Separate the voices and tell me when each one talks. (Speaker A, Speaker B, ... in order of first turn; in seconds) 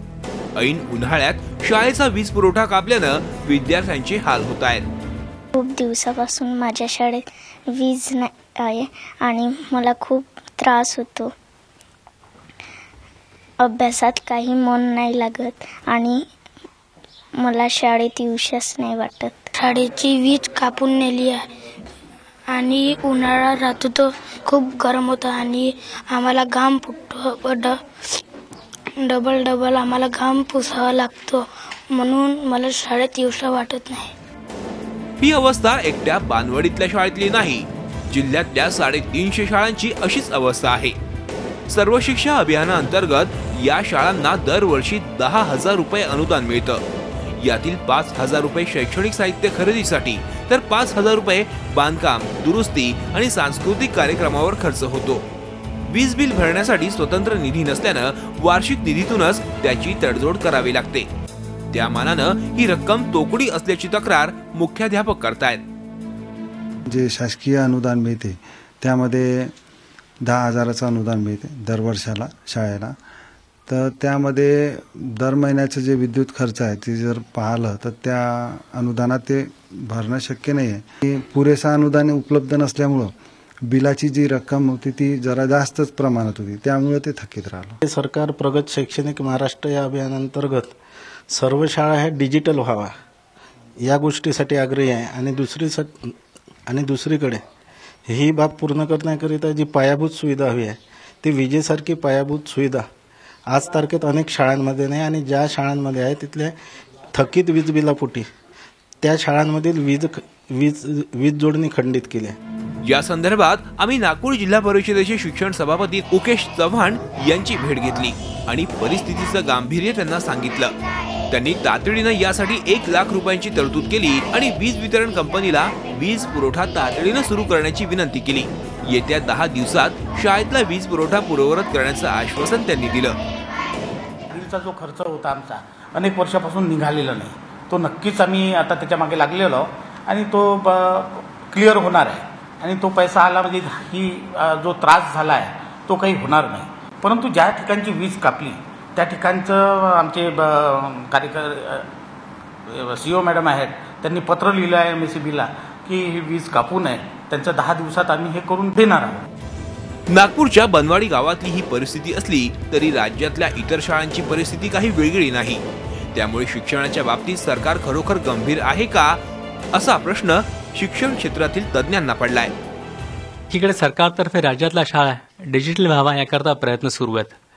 Speaker A: 0.6-4.8, 35.2-41.0, 41.7-46.8, 47.4-55.2, 55.9-61.1, 61.7-65.6, 112.8-120.7, 121.3-133.2, 160.1-165.6, 166.1-169.2, 169.7-172.5
Speaker B: 5.5-11.3, 13.6-16.2, 17.4-19.5
Speaker C: 19.6-21.4, 22.5-28.2, 29.0-34.1
Speaker D: 66.9-69.5, 70.2-72.9, 73.7-83.1, 83.7-87.8
Speaker E: 87.8-90.7, 91.3-92.9, 93.8-96.2, 96.7-97.4, 98.1-102.8, 103.5-106.5, 107.1-108.3, 109.0-112.4
Speaker F: 134.3-151.9, 152.7-159.2
Speaker G: 173.5-177.3